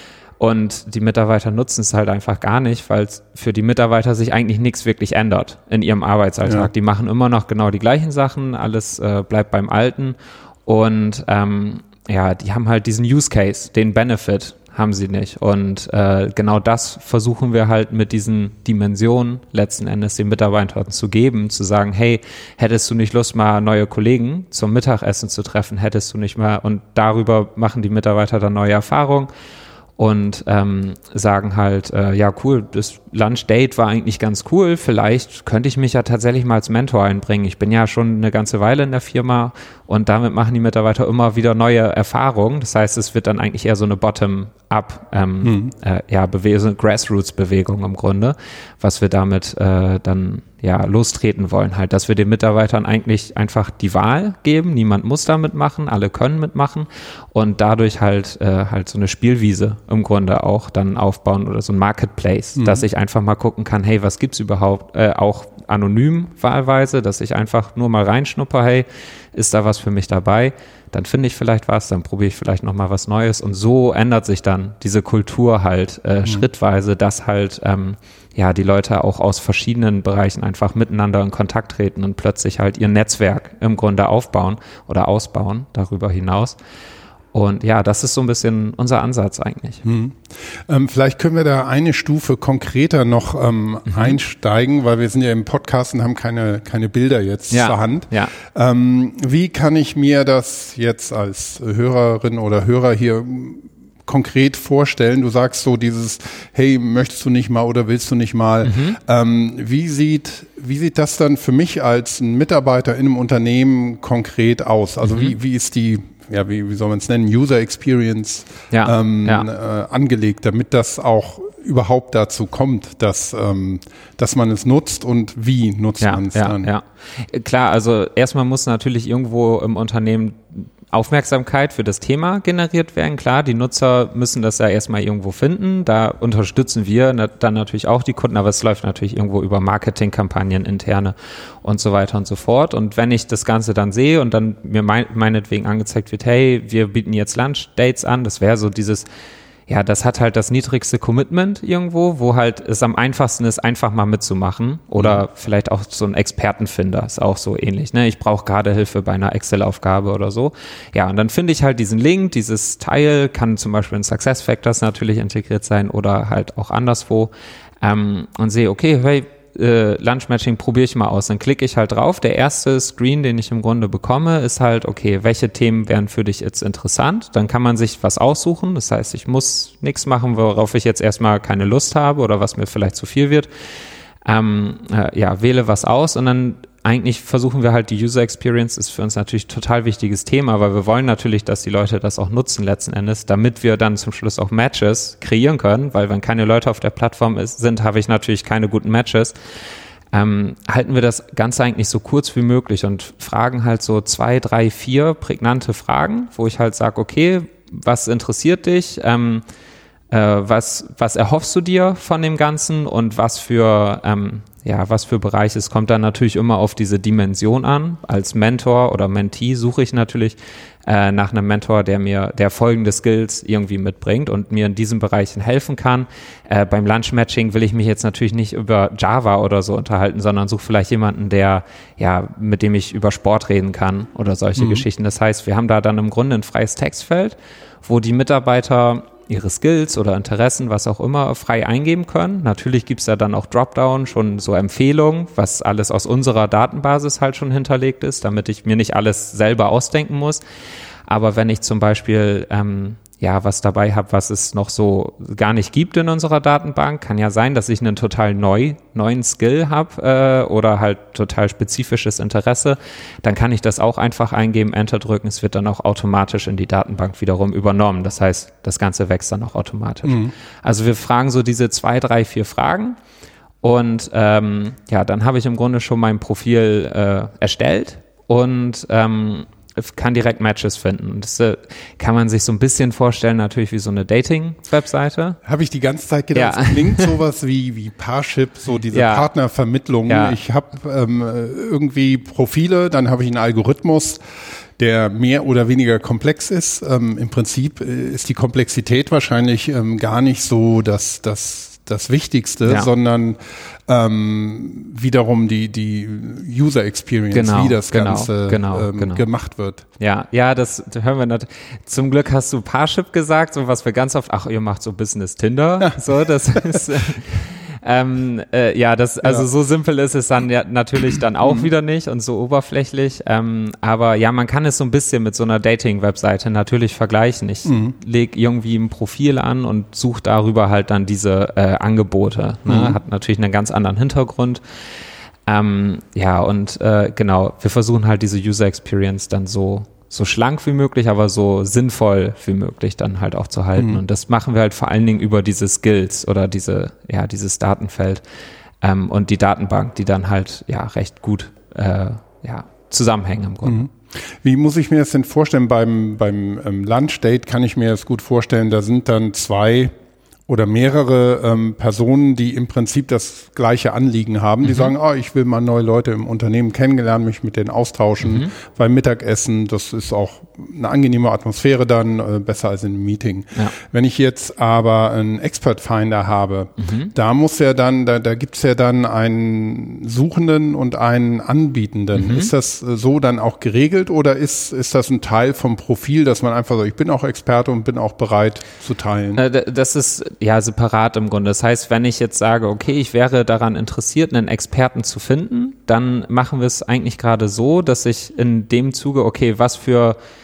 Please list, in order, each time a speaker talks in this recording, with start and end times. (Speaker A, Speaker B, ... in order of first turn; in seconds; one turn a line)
Speaker A: 0.4-29.3
Speaker B: 6.4-6.7
Speaker A: 30.0-86.6
Speaker B: 45.4-45.7
Speaker B: 62.6-62.8
Speaker A: 87.3-89.8
Speaker B: 89.8-126.7
Speaker A: 93.9-94.2
Speaker A: 97.5-98.3
Speaker A: 108.6-109.0
Speaker A: 115.0-115.3
Speaker A: 118.7-119.5
Speaker A: 126.0-149.1
Speaker A: 149.7-183.5
Speaker A: 184.3-199.3
Speaker A: 200.1-209.4
Speaker A: 210.1-250.4
Speaker B: 234.6-234.9
Speaker A: 251.1-273.0
Speaker B: 270.1-270.3
Speaker A: 273.6-285.4
Speaker B: 285.4-294.2
Speaker A: 286.4-287.2
Speaker A: 288.9-289.3
Speaker A: 290.1-290.4
Speaker B: 294.8-309.9
Speaker A: 307.3-309.2
Speaker A: 310.0-334.6
Speaker B: 316.5-316.8
Speaker B: 319.2-319.5
Speaker B: 321.4-321.7
Speaker B: 327.6-327.9
Speaker B: 332.7-333.0
Speaker A: 335.5-348.2
Speaker B: 343.8-344.0
Speaker A: 348.8-353.9
Speaker B: 353.6-359.9
Speaker B: 360.5-389.4
Speaker A: 364.6-364.9
Speaker A: 368.2-368.5
Speaker A: 376.8-377.1
Speaker A: 382.1-382.5
Speaker A: 389.4-400.2